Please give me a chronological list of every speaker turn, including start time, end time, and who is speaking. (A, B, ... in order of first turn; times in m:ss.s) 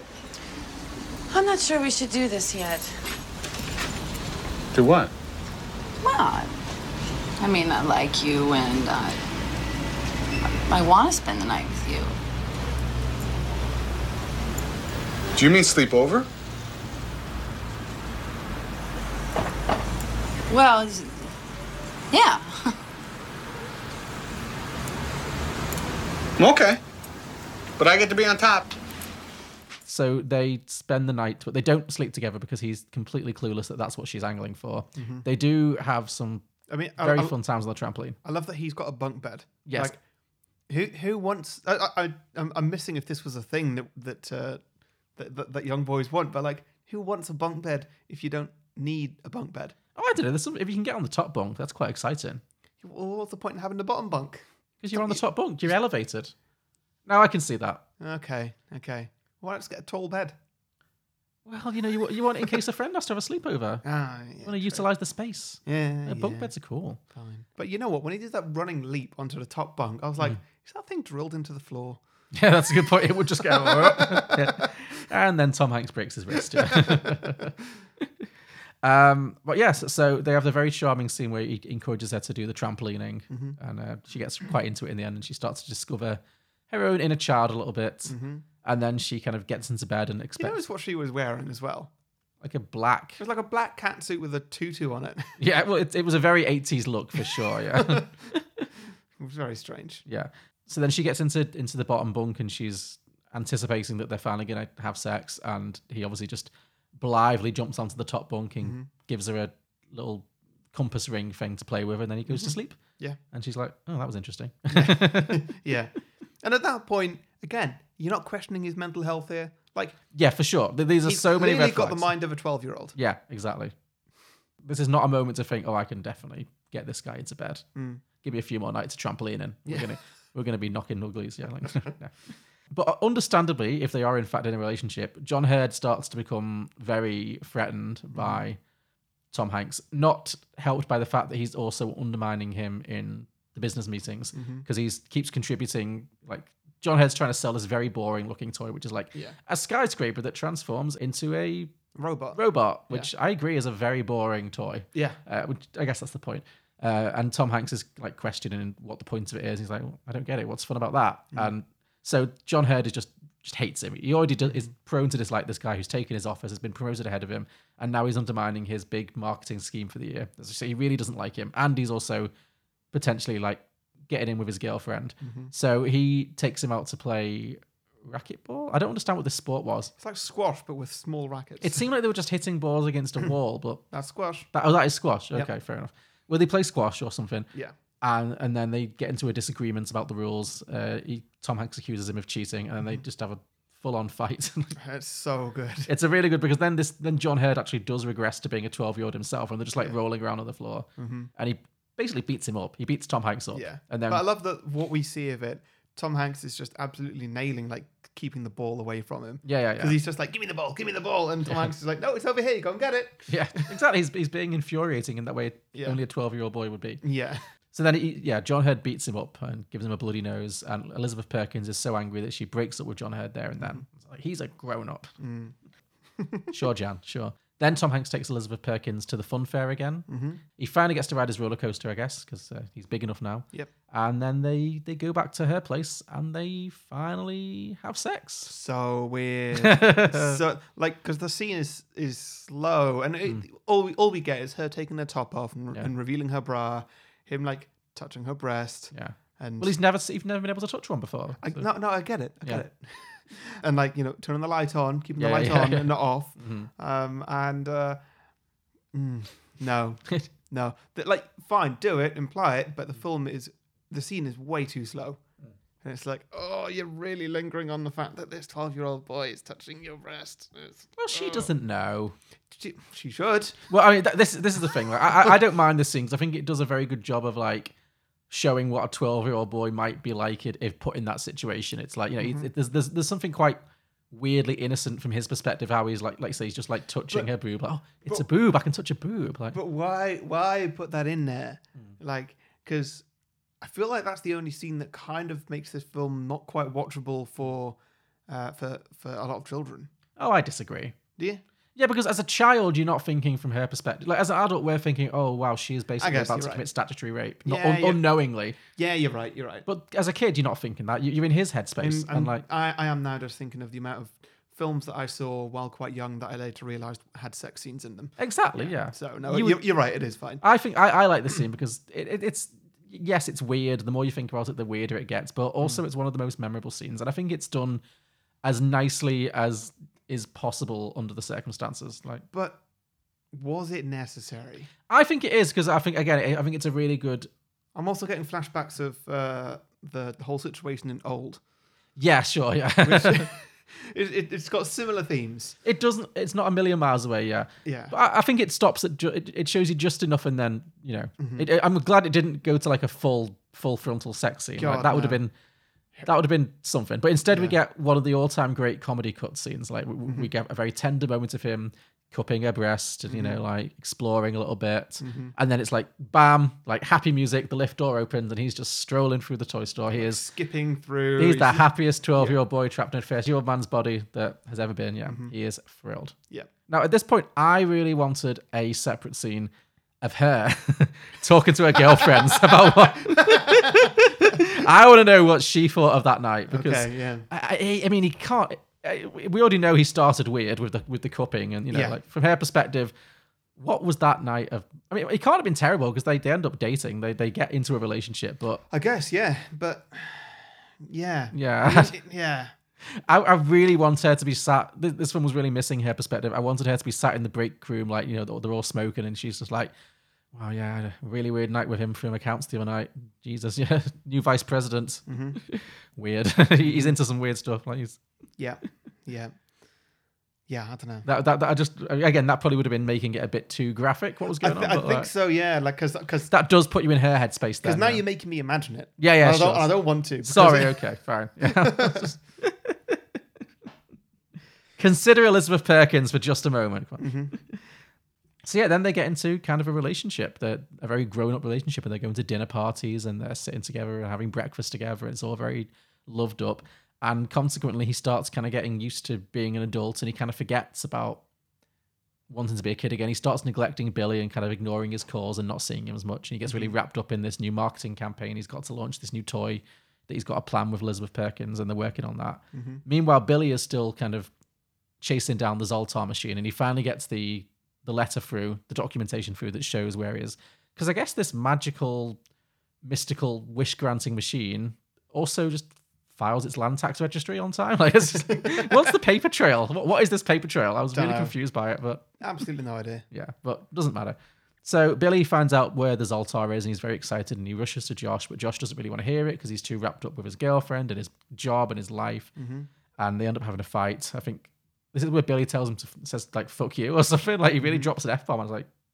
0:01.3-0:02.9 A
0:04.7-0:05.1 B
0:06.0-0:06.5 A
0:07.4-0:09.2 A
0:10.7-0:12.2 A
0:15.4-0:16.3 B
0:20.5-0:21.3 A
0:22.1-0:22.7 A
0:26.4-0:26.8 B
0:27.8-0:28.7 B
0:29.8-0:36.5 C
0:35.0-0:35.3 D
0:36.7-0:37.4 D
0:37.0-0:38.2 C
0:38.2-0:40.0 D
0:39.7-0:40.0 C
0:40.7-0:44.6 D
0:45.2-0:49.8 D
0:50.0-0:52.4 C
0:52.8-0:55.2 D
0:54.8-0:56.3 C
0:57.1-0:57.8 C
0:58.0-1:00.4 D
1:01.5-1:03.8 C
1:03.8-1:04.8 D
1:04.4-1:07.0 C
1:05.6-1:06.5 D
1:07.1-1:12.0 D
1:12.3-1:18.2 C
1:13.4-1:14.7 D
1:16.5-1:17.5 D
1:18.8-1:30.6 C
1:23.3-1:23.6 D
1:28.1-1:28.4 D
1:30.4-1:31.9 D
1:32.4-1:33.2 C
1:33.2-1:35.3 D
1:35.4-1:38.6 C
1:37.7-1:38.1 D
1:39.2-1:40.0 D
1:40.1-1:52.8 C
1:48.6-1:48.9 D
1:52.3-1:53.2 D
1:53.3-1:55.5 C
1:54.7-2:00.0 D
2:00.1-2:02.1 C
2:01.0-2:03.0 D
2:03.0-2:03.7 C
2:04.6-2:07.6 C
2:07.8-2:08.0 D
2:08.2-2:12.2 C
2:09.7-2:09.9 D
2:12.7-2:18.6 C
2:18.1-2:18.4 D
2:19.3-2:31.7 C
2:24.3-2:24.7 D
2:32.0-2:33.1 D
2:32.4-2:52.3 C
2:52.9-2:59.9 C
2:55.2-2:55.5 D
3:00.0-3:01.9 D
3:01.6-3:03.8 C
3:03.9-3:04.5 D
3:04.5-3:07.5 C
3:08.0-3:14.8 C
3:14.8-3:15.9 D
3:15.9-3:24.2 C
3:21.0-3:21.3 D
3:23.5-3:33.7 D
3:29.4-3:30.0 C
3:33.3-3:37.0 C
3:37.0-3:37.4 D
3:37.7-3:45.1 C
3:45.2-3:45.6 D
3:46.2-3:46.5 D
3:46.5-3:50.1 C
3:50.1-3:50.4 D
3:50.6-3:58.5 C
3:58.4-4:09.8 D
3:59.6-4:00.4 C
4:08.9-4:11.7 C
4:11.4-4:18.0 D
4:15.2-4:16.7 C
4:18.9-4:25.2 D
4:25.8-4:31.5 D
4:31.0-4:32.2 C
4:32.5-4:33.7 D
4:33.7-4:37.7 C
4:38.3-4:43.6 C
4:42.2-4:42.5 D
4:44.1-4:49.6 C
4:49.5-4:53.0 D
4:53.6-4:57.8 D
4:58.3-4:59.9 D
5:00.2-5:01.0 C
5:01.2-5:01.4 D
5:01.8-5:08.6 C
5:06.0-5:06.7 D
5:07.4-5:08.1 D
5:08.8-5:09.7 D
5:09.7-5:12.4 C
5:11.8-5:20.4 D
5:18.2-5:19.6 C
5:20.4-5:27.8 C
5:28.4-5:32.2 C
5:32.3-5:32.6 D
5:33.3-5:34.7 D
5:34.9-5:37.3 C
5:37.8-5:41.4 D
5:42.0-5:43.3 C
5:42.8-5:45.6 D
5:45.6-5:55.3 C
5:47.6-5:48.0 D
5:51.2-5:51.5 D
5:54.6-5:55.2 D
5:56.0-6:10.3 C
5:57.3-5:57.6 D
6:03.1-6:03.4 D
6:05.0-6:05.3 D
6:09.9-6:12.4 D
6:11.2-6:16.2 C
6:15.1-6:15.3 D
6:16.7-6:32.9 C
6:21.9-6:23.9 D
6:26.5-6:27.3 D
6:31.7-6:32.0 D
6:33.6-6:38.6 C
6:38.7-6:42.5 D
6:41.3-6:42.0 C
6:42.8-6:49.7 C
6:50.3-6:58.0 C
6:55.1-6:55.4 D
6:56.6-6:56.9 D
6:58.4-6:59.3 D
7:00.5-7:01.1 D
7:01.0-7:05.1 C
7:04.4-7:06.3 D
7:06.3-7:08.0 C
7:07.6-7:10.8 D
7:09.0-7:13.0 C
7:11.4-7:12.1 D
7:14.8-7:17.6 C
7:17.0-7:17.3 D
7:18.4-7:31.2 C
7:32.3-7:44.3 C
7:36.5-7:36.7 D
7:42.5-7:42.8 D
7:45.0-7:52.2 C
7:52.8-8:02.1 C
7:58.3-7:58.9 D
8:00.9-8:01.4 D
8:02.2-8:03.1 D
8:03.1-8:12.3 C
8:12.4-8:12.7 D
8:13.0-8:18.7 C
8:17.6-8:17.9 D